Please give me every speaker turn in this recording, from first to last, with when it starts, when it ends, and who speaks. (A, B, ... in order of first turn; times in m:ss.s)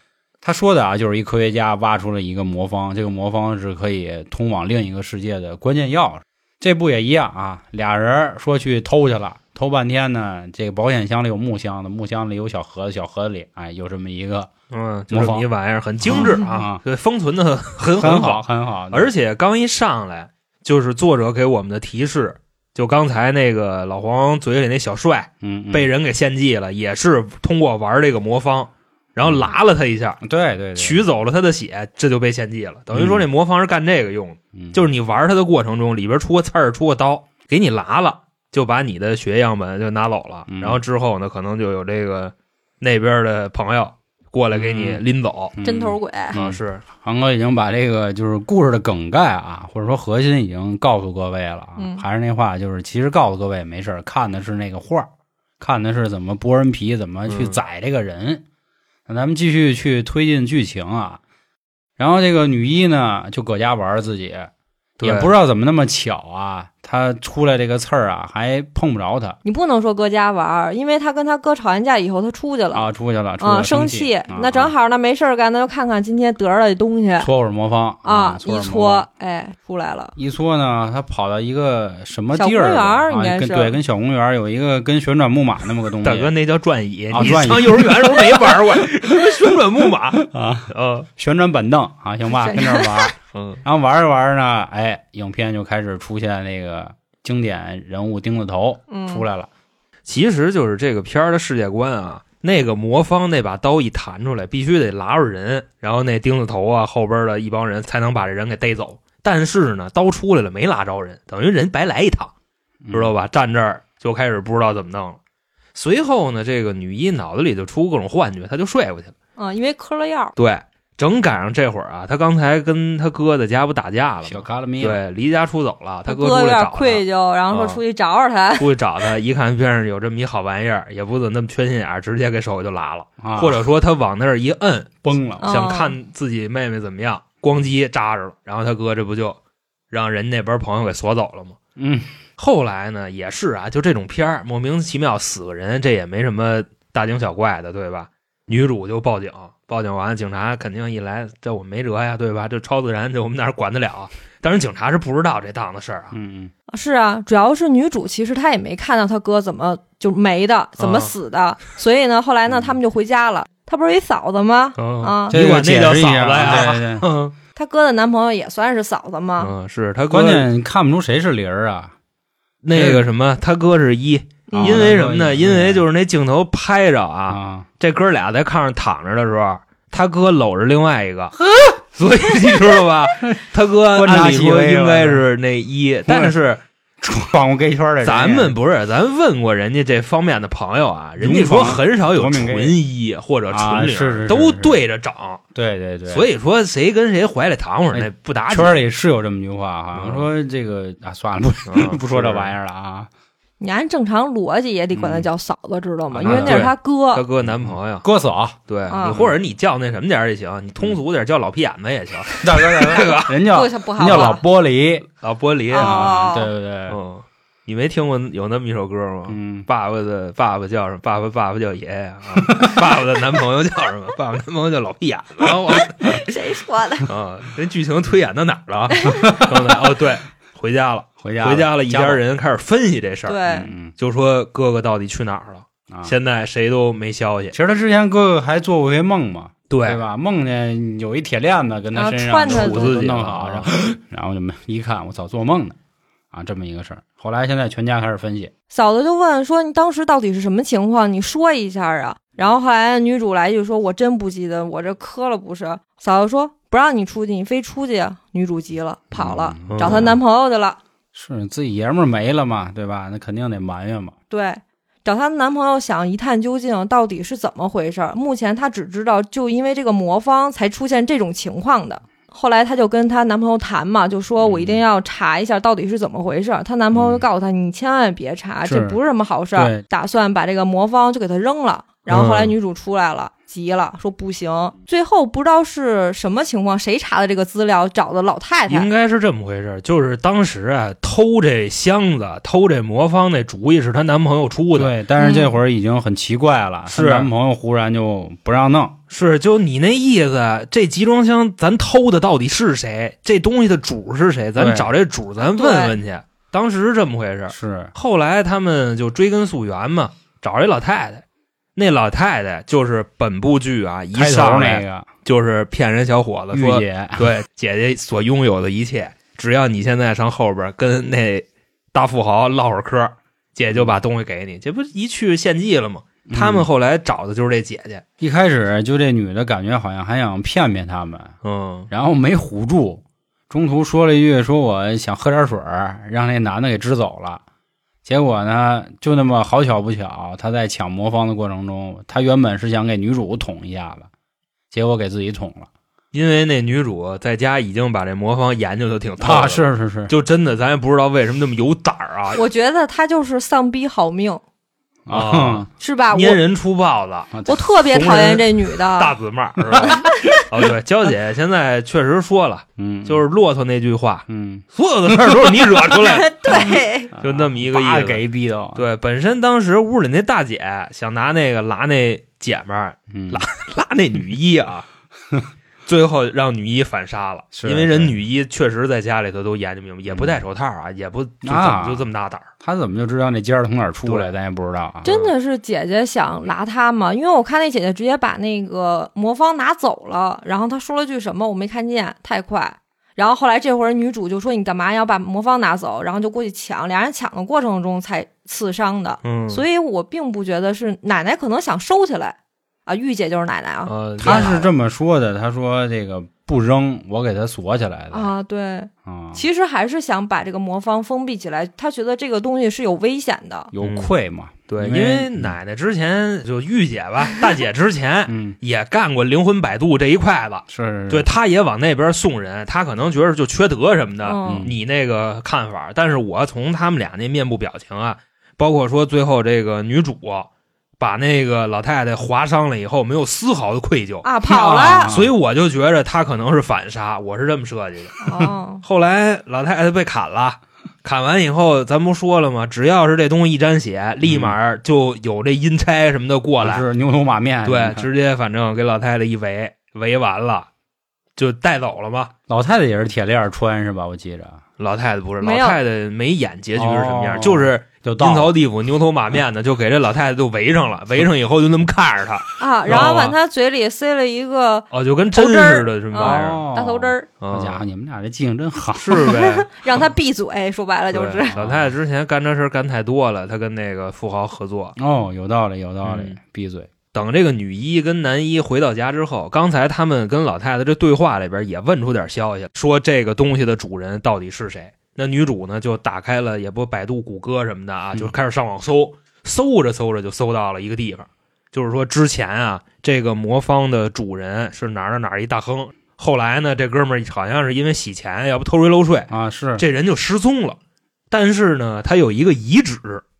0:00.4-0:14.5 A
0:14.7-0:30.2 B
0:15.1-0:15.5 A
0:16.0-0:16.8 A
0:16.1-0:16.4 C
0:18.0-0:19.1 A
0:25.4-0:25.9 A
0:29.2-0:29.5 A
0:30.2-0:31.0 A
0:30.8-0:45.6 B
0:32.9-0:33.2 A
0:34.6-0:34.8 A
0:40.5-0:40.8 A
0:44.5-0:45.0 A
0:45.5-0:55.1 A
0:45.6-0:46.4 C
0:46.3-0:46.8 B
0:51.8-0:52.0 C
0:55.6-0:58.4 A
0:57.3-0:57.6 B
0:59.1-1:01.2 A
1:02.0-1:09.4 A
1:05.0-1:05.3 B
1:09.4-1:12.9 C
1:12.7-1:14.7 A
1:13.4-1:17.3 C
1:17.2-1:19.1 A
1:18.0-1:20.1 C
1:20.2-1:26.3 A
1:22.4-1:23.8 C
1:26.0-1:31.1 B
1:27.1-1:29.6 A
1:30.1-1:39.5 A
1:32.3-1:33.1 C
1:33.3-1:33.6 B
1:38.9-1:39.2 C
1:40.1-1:52.3 B
1:52.8-1:53.1 A
1:52.9-1:55.2 B
1:55.8-1:59.1 B
1:59.4-2:00.3 C
2:00.4-2:07.8 B
2:04.2-2:05.0 A
2:06.1-2:08.7 C
2:08.6-2:19.4 B
2:13.2-2:13.6 A
2:15.0-2:15.5 A
2:15.4-2:16.0 C
2:19.9-2:21.6 B
2:21.8-2:22.1 A
2:22.4-2:36.1 B
2:36.1-2:36.5 A
2:36.7-2:45.4 C
2:40.8-2:41.1 B
2:44.8-2:47.4 B
2:45.3-2:47.1 A
2:47.6-2:49.5 C
2:49.4-2:50.5 B
2:50.1-2:51.9 A
2:52.6-3:01.4 B
2:52.7-2:53.1 A
2:54.5-2:54.9 C
2:54.5-2:55.9 A
2:57.3-2:57.7 A
3:02.0-3:06.6 B
3:03.9-3:05.2 A
3:06.1-3:06.4 A
3:07.0-3:08.6 A
3:08.0-3:15.4 B
3:11.2-3:12.8 A
3:13.5-3:14.8 A
3:15.6-3:16.3 A
3:16.1-3:18.8 B
3:17.9-3:23.1 A
3:20.0-3:20.2 B
3:21.7-3:22.6 B
3:23.6-3:27.2 C
3:24.9-3:25.3 A
3:26.1-3:26.7 A
3:26.2-3:28.1 B
3:27.4-3:28.6 A
3:28.7-3:33.4 B
3:28.9-3:29.3 C
3:29.1-3:29.3 A
3:32.4-3:35.1 A
3:33.4-3:34.4 C
3:35.2-3:36.1 B
3:35.7-3:36.5 C
3:35.7-3:37.0 A
3:36.9-3:46.2 B
3:39.3-3:39.7 A
3:42.4-3:42.8 A
3:46.0-3:47.1 C
3:47.1-3:57.6 B
3:48.9-3:49.4 C
3:49.2-3:49.6 A
3:51.2-3:52.2 A
3:53.3-3:53.7 C
3:53.5-3:53.9 A
3:57.5-4:05.8 A
3:59.7-4:00.0 B
4:01.9-4:03.1 C
4:02.4-4:03.7 B
4:06.3-4:08.5 A
4:08.7-4:20.8 C
4:19.1-4:20.2 A
4:19.7-4:20.1 B
4:21.1-4:24.1 A
4:24.3-4:48.9 C
4:34.4-4:34.8 A
4:36.9-4:37.2 A
4:38.6-4:39.0 A
4:39.6-4:39.8 A
4:42.1-4:42.5 B
4:48.7-4:54.9 B
4:54.7-4:59.0 A
4:55.2-4:55.6 C
4:56.9-4:57.3 B
4:59.1-5:11.2 B
5:04.6-5:04.9 A
5:05.4-5:06.0 C
5:07.5-5:07.9 A
5:11.8-5:28.0 B
5:14.1-5:15.1 A
5:16.5-5:17.3 A
5:26.2-5:26.7 A
5:28.2-5:31.3 A
5:31.4-5:31.9 B
5:31.9-5:37.4 A
5:38.0-5:44.1 A
5:44.7-5:45.7 A
5:46.1-5:52.4 B
5:49.2-5:50.1 A
5:52.3-5:54.4 C
5:55.1-5:55.7 A
5:55.1-5:57.3 B
5:55.8-5:56.4 C
5:57.3-5:57.7 A
5:57.5-5:59.1 C
5:57.9-6:08.2 B
5:59.7-6:00.4 A
5:59.8-6:00.3 C
6:02.8-6:03.2 A
6:04.3-6:05.7 A
6:05.9-6:07.1 C
6:07.1-6:08.9 A
6:08.8-6:14.9 B
6:13.1-6:13.4 A
6:15.9-6:22.5 B
6:17.5-6:18.1 A
6:20.1-6:20.4 A
6:21.4-6:22.1 A
6:22.6-6:25.1 A
6:24.0-6:24.3 B
6:25.0-6:25.3 B
6:25.0-6:44.5 C
6:39.2-6:39.7 B
6:43.9-6:44.7 B
6:44.2-6:48.3 A
6:48.1-6:53.7 C
6:49.0-6:49.4 A
6:53.7-6:55.6 A
6:53.8-6:54.1 B
6:54.7-7:14.3 B
6:58.3-6:58.6 A
7:00.7-7:01.3 A
7:04.2-7:04.7 C
7:04.4-7:04.8 A
7:14.2-7:15.1 C
7:14.4-7:15.3 A
7:15.0-7:18.3 B
7:18.2-7:18.8 C
7:18.8-7:26.8 B
7:24.2-7:24.6 A
7:26.6-7:28.1 A
7:27.6-7:30.7 B
7:31.4-7:32.3 B
7:32.5-7:34.6 A
7:34.8-7:43.4 B
7:35.4-7:35.8 C
7:36.8-7:38.6 A
7:42.6-7:47.3 C
7:44.9-7:46.6 B
7:46.2-7:49.4 A
7:47.4-7:47.8 B
7:49.0-7:50.0 B
7:49.1-7:51.6 C
7:51.1-7:54.9 B
7:51.6-7:51.9 A
7:55.0-7:56.9 A
7:56.0-7:56.4 B
7:57.1-8:20.8 B
8:19.3-8:19.8 A
8:21.3-8:23.2 B